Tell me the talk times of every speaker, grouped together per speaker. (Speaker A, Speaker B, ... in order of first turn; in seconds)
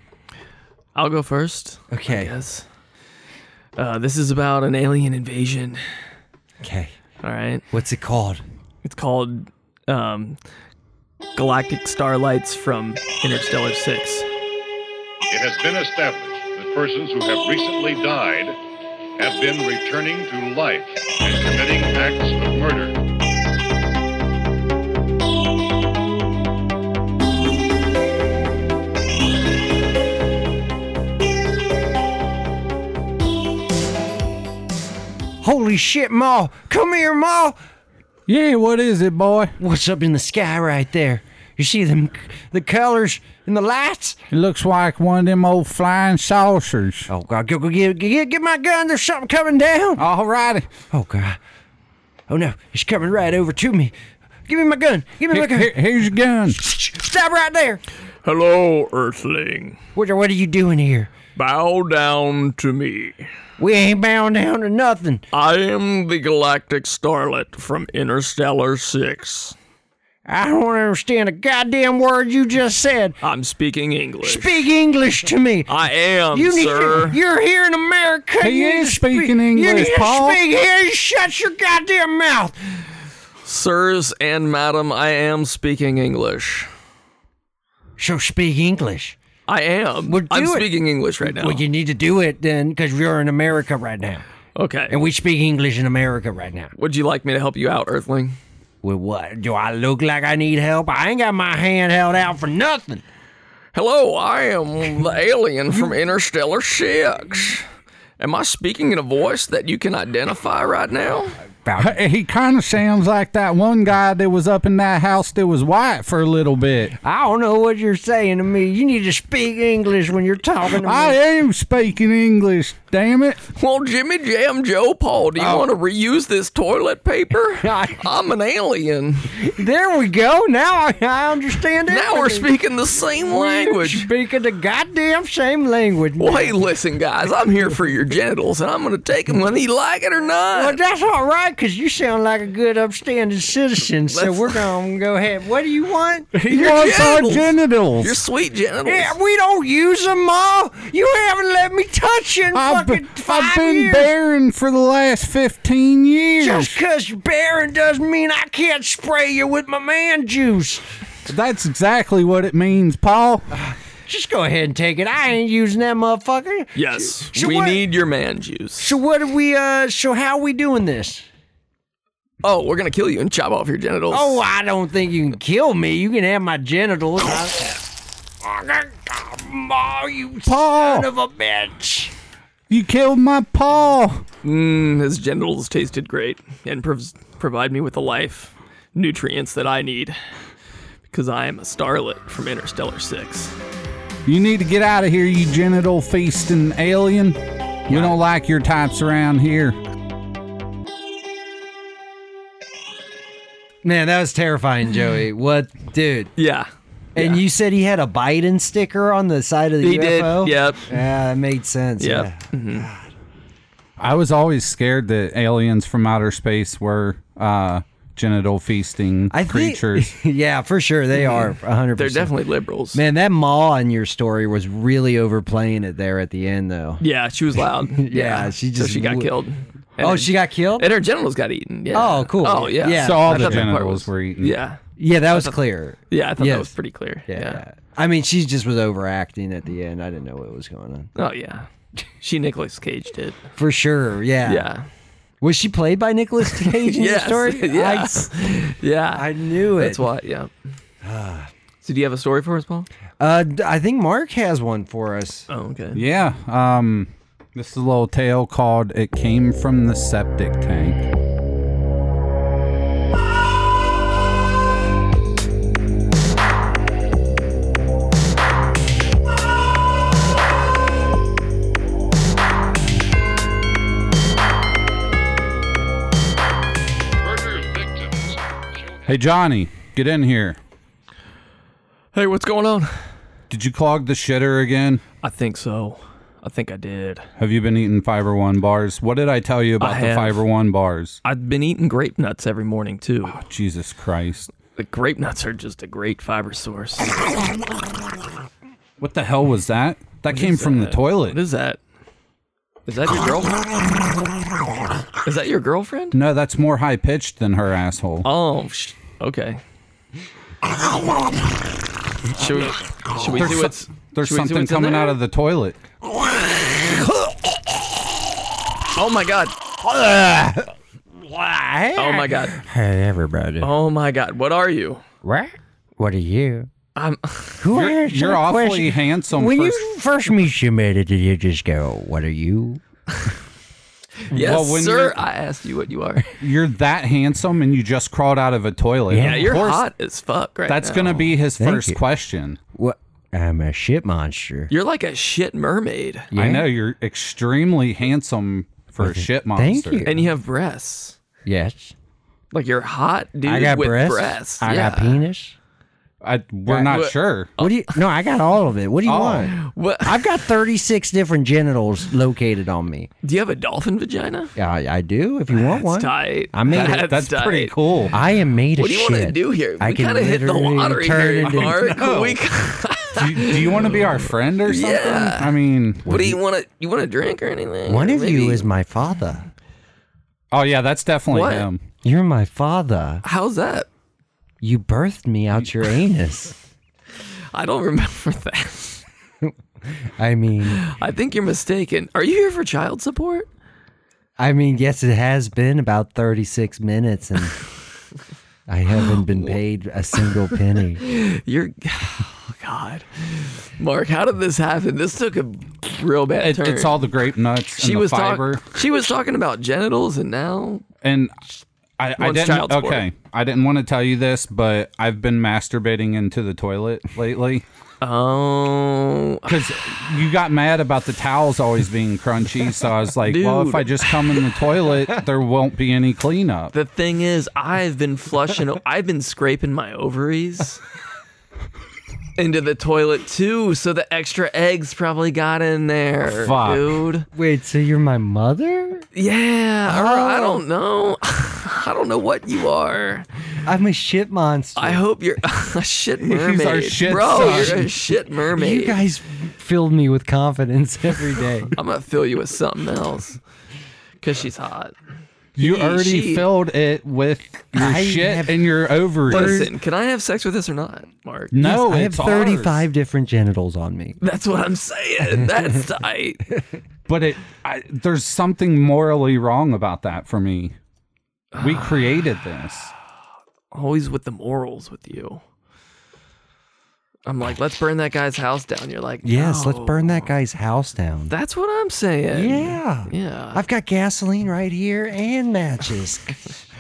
Speaker A: 0.9-2.7, 3.8-5.8, 7.2-7.6, 8.8-10.4, 11.4-14.3, 58.2-59.8, 61.4-63.3, 65.3-69.6, 73.2-74.6, 75.7-77.2, 83.4-86.7, 89.5-91.7, 94.5-95.0, 96.8-98.4, 103.7-107.7, 108.2-111.4, 123.5-129.5, 131.9-134.1, 136.2-140.8, 144.1-144.6, 146.5-149.2, 166.8-168.9, 172.4-174.4, 184.4-190.2, 191.1-193.6, 206.4-207.4, 209.8-210.9, 212.0-212.9, 222.0-223.0, 227.0-235.6, 236.1-237.6, 241.2-241.7, 242.2-243.4, 244.4-244.9, 246.6-250.5, 251.8-252.9, 255.5-256.0, 282.1-283.0, 285.2-287.3, 289.8-290.4, 291.2-293.4, 294.8-297.2, 300.3-301.8, 302.9-303.7, 305.2-306.2, 308.2-309.6, 312.2-315.2, 318.9-319.6, 322.0-322.6, 323.6-325.0, 326.9-327.7, 334.2-336.3, 339.2-341.3, 344.7-346.3, 350.1-351.2, 352.5-355.2, 356.9-358.0, 359.5-360.3, 363.2-364.5, 365.5-367.8, 368.8-375.5, 376.1-378.7, 381.3-381.7, 383.2-383.9, 387.5-389.0, 390.7-393.5, 401.0-407.0, 407.8-410.9, 412.2-413.1, 418.0-419.5, 423.3-424.4, 426.7-430.8, 432.4-437.3, 439.1-443.3, 444.8-449.0, 451.8-453.4, 454.2-455.0, 455.6-456.5, 459.3-461.6, 464.2-466.4, 471.5-472.1, 473.7-475.4, 477.3-480.3, 481.3-483.6
Speaker B: 1.9-2.3, 6.6-7.0, 7.7-8.4, 35.4-37.6, 39.6-44.2, 47.1-50.0, 50.9-51.4, 52.3-54.0, 54.5-55.8, 56.5-57.8, 60.0-61.1, 63.6-65.2, 70.3-73.2, 74.2-75.7, 76.3-82.6, 88.0-89.2, 90.1-90.7, 91.2-94.2, 94.9-96.7, 98.8-103.0, 111.6-112.0, 117.0-121.2, 125.4-125.6, 127.6-128.1, 129.4-132.5, 133.2-136.6, 140.5-146.3, 148.9-154.1, 156.4-160.8, 163.5-167.8, 168.8-171.3, 174.1-177.8, 178.4-182.1, 197.9-198.2, 203.8-206.3, 207.2-213.1, 219.3-222.4, 222.9-227.0, 227.8-229.3, 230.0-230.9, 231.9-233.7, 235.0-236.8, 237.3-241.1, 243.6-244.7, 245.4-248.3, 249.1-250.1, 251.0-251.5, 253.2-255.5, 316.6-317.4, 319.8-323.7, 325.2-326.7, 327.6-332.8, 334.3-334.6, 339.1-339.8, 341.6-342.0, 342.8-344.7, 346.3-346.7, 349.0-350.3, 351.4-351.9, 353.4-355.6, 356.7-363.1, 364.6-367.1, 368.1-371.9, 376.1-376.4, 377.9-379.5, 382.0-383.2, 384.6-386.6, 389.4-390.8, 394.4-397.6, 398.7-401.0, 437.4-439.1, 439.9-440.6, 443.6-445.0, 447.3-447.9, 448.5-451.7, 457.7-458.6, 459.3-459.7, 461.6-464.2, 465.4-465.7, 479.2-481.3, 482.3-486.4
Speaker C: 15.3-18.6, 19.2-23.0, 277.2-279.1
Speaker D: 38.3-39.5, 44.3-47.1, 50.0-50.7, 55.3-56.6, 78.4-80.4, 111.8-116.9, 120.8-123.4, 146.3-148.2, 152.5-156.8, 161.3-163.5, 180.5-181.1, 182.7-184.2, 194.3-199.8, 214.0-220.1, 233.0-234.6, 255.9-261.1, 279.1-280.6, 283.5-285.0, 287.4-291.2, 293.3-294.5, 299.0-301.4, 306.1-308.3, 313.3-315.8, 327.7-329.8, 334.4-335.2, 336.3-339.8, 340.7-342.6, 346.4-350.1, 354.6-354.9, 356.2-357.5, 359.1-359.5, 366.7-368.1, 371.4-372.4, 373.1-376.1, 380.5-381.8, 406.4-408.6, 411.0-411.4, 412.0-417.6, 419.5-426.7, 436.3-437.0, 446.2-447.8, 455.6-459.7, 461.5-462.9, 467.1-470.8, 471.6-472.9